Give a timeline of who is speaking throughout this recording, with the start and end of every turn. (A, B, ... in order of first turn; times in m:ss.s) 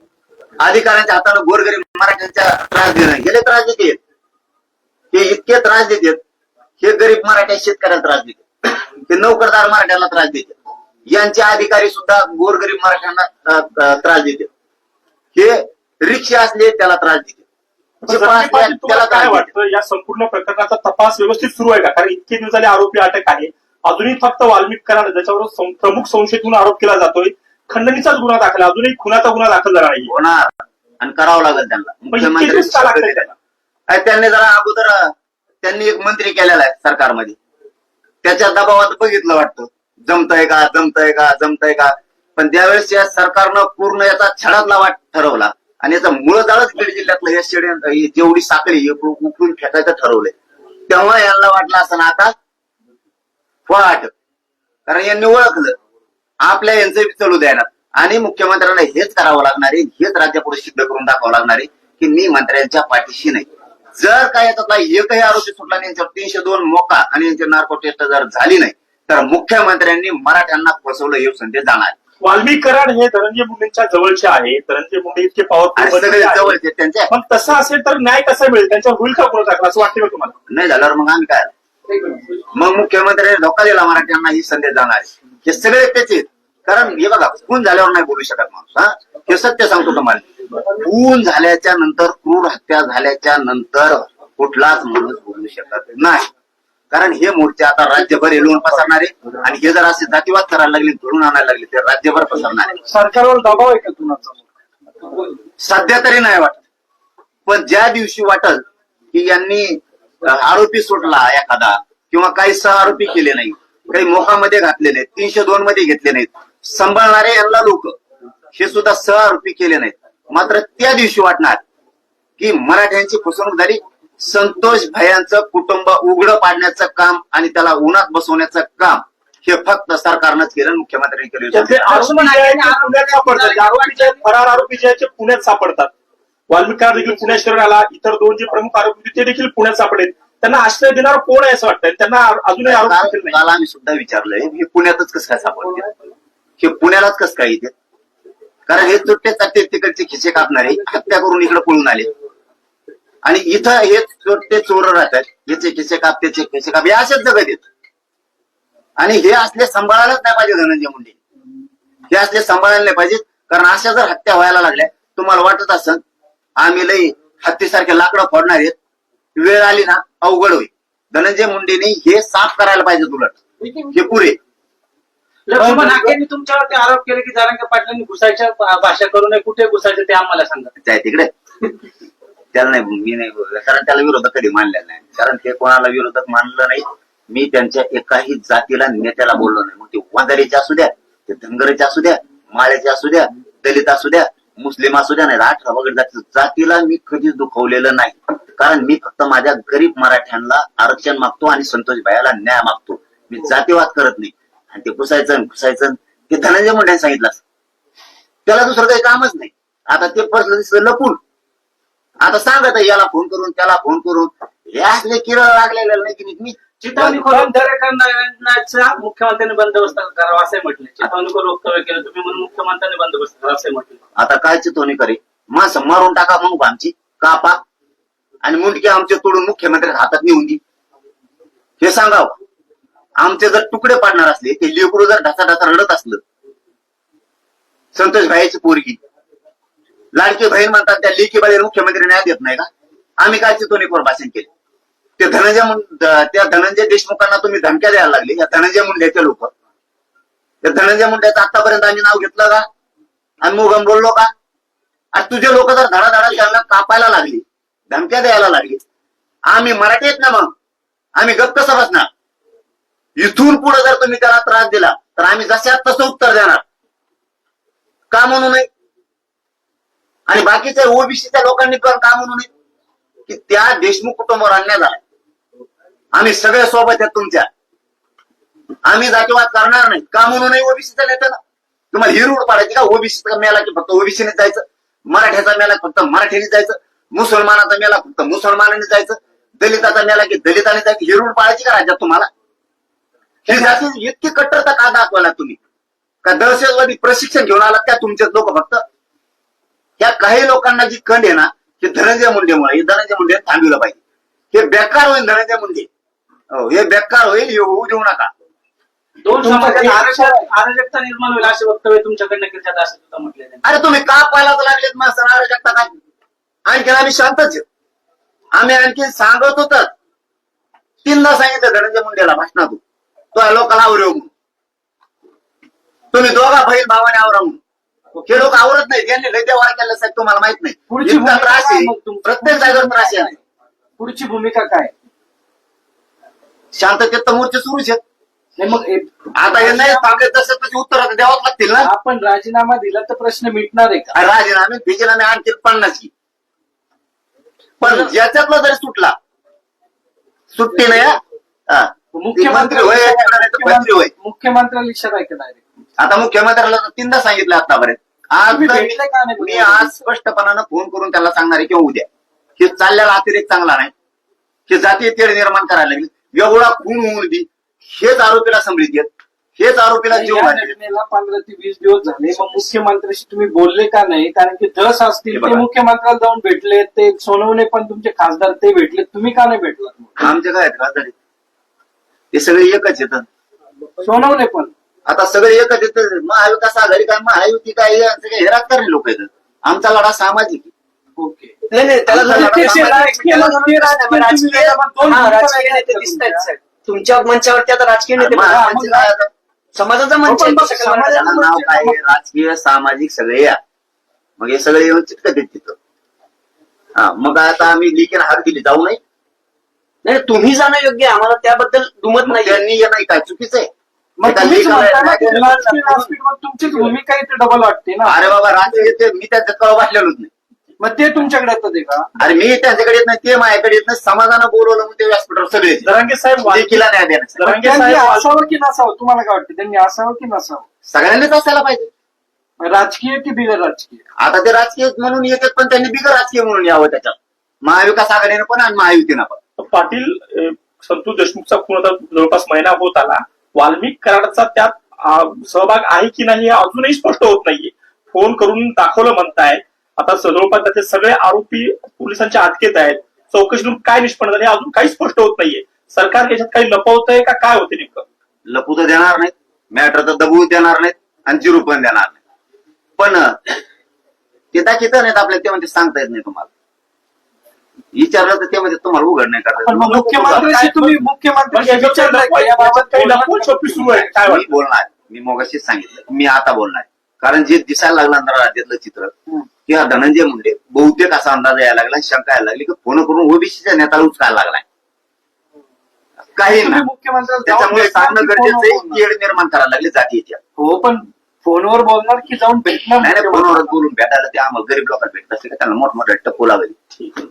0:00.6-0:04.0 A
0:05.1-0:06.2 A
0:06.8-0:10.6 A
0:11.1-0:14.5 A
0:15.4-0:17.4 A
0:18.0-0:30.1 B
0:18.1-0:19.5 A
0:30.1-0:33.3 A
0:32.1-0:33.4 B
0:33.9-0:37.4 A
0:38.2-0:50.3 A
0:50.9-0:52.3 A
0:53.7-0:54.1 A
0:54.9-0:55.8 A
0:56.4-1:12.0 A
1:12.2-1:16.6 B
1:15.8-1:17.1 A
1:17.1-1:20.3 B
1:20.5-1:21.5 A
1:21.9-1:22.2 C
1:22.5-1:36.3 A
1:36.9-1:42.8 A
1:42.8-1:44.4 C
1:45.6-1:46.6 A
1:47.5-1:58.0 A
1:58.5-2:01.6 A
2:02.4-2:11.9 A
2:11.5-2:15.9 B
2:11.9-2:14.2 D
2:16.5-2:23.4 B
2:22.6-2:25.9 A
2:26.6-2:27.7 A
2:28.7-2:32.1 A
2:33.2-2:37.6 A
2:39.0-2:41.2 A
2:42.1-2:46.0 A
2:46.6-2:48.8 A
2:49.4-2:53.4 A
2:53.9-2:54.4 A
2:55.5-2:56.2 C
2:55.6-3:00.7 D
3:00.8-3:01.3 A
3:02.5-3:27.4 A
3:28.5-3:31.2 A
3:32.2-3:37.5 A
3:36.8-3:44.0 D
3:44.2-3:47.6 A
3:48.4-3:50.6 A
3:51.8-3:52.4 A
3:53.2-3:56.2 A
3:58.0-3:59.0 A
4:00.1-4:04.5 A
4:05.2-4:09.5 A
4:10.6-4:12.7 A
4:13.4-4:14.3 A
4:15.1-4:18.8 A
4:19.5-4:20.5 A
4:21.2-4:22.1 A
4:23.2-4:26.6 A
4:28.1-4:28.7 A
4:30.3-4:32.5 A
4:33.3-4:35.0 A
4:36.1-4:37.5 A
4:38.8-4:41.4 A
4:41.9-4:52.3 A
4:53.5-4:55.6 A
4:56.2-4:58.8 A
5:00.0-5:04.0 A
5:04.5-5:05.9 A
5:06.5-5:08.3 A
5:09.2-5:13.6 D
5:09.4-5:10.5 C
5:09.9-5:10.5 E
5:13.6-5:15.9 A
5:16.7-5:17.6 A
5:18.6-5:19.9 A
5:21.0-5:22.8 A
5:23.3-5:24.3 A
5:26.1-5:27.6 A
5:28.2-5:33.4 A
5:30.9-5:33.4 C
5:34.0-5:34.9 C
5:36.7-5:38.0 A
5:38.6-5:40.2 C
5:39.4-5:41.9 A
5:41.8-5:44.2 C
5:44.1-5:46.1 A
5:47.8-5:49.2 A
5:50.5-5:54.1 A
5:52.1-5:55.6 C
5:56.0-6:02.1 A
5:58.5-5:59.9 C
6:02.6-6:03.9 A
6:04.7-6:10.8 A
6:10.1-6:20.3 C
6:15.3-6:15.6 A
6:20.2-6:21.1 A
6:22.3-6:23.2 A
6:24.0-6:24.7 C
6:25.1-6:30.7 A
6:31.2-6:31.6 C
6:31.7-6:39.0 E
6:32.1-6:33.2 A
6:32.1-6:36.5 C
6:38.2-6:39.3 A
6:38.6-6:39.0 C
6:39.8-6:41.3 E
6:40.2-6:42.0 C
6:41.1-6:43.6 A
6:44.4-6:45.8 A
6:47.0-6:49.0 A
6:50.0-6:52.6 E
6:52.2-6:53.7 A
6:54.2-6:58.7 C
6:54.2-6:55.6 A
6:55.4-6:56.1 E
6:58.0-7:00.3 A
7:00.8-7:02.1 C
7:02.2-7:05.9 A
7:05.8-7:08.3 B
7:06.4-7:07.5 A
7:07.4-7:10.6 C
7:10.9-7:11.9 A
7:12.6-7:14.0 C
7:14.2-7:19.4 A
7:19.6-7:38.0 B
7:38.5-7:42.2 A
7:43.0-7:43.5 A
7:44.5-7:46.5 A
7:47.9-7:50.5 A
7:49.6-7:54.1 C
7:49.9-7:51.0 B
7:51.5-7:54.5 B
7:54.2-7:59.1 A
7:59.7-8:04.6 A
8:06.4-8:06.8 A
8:06.4-8:09.0 C
8:07.5-8:10.4 A
8:10.6-8:13.7 C
8:13.0-8:16.8 A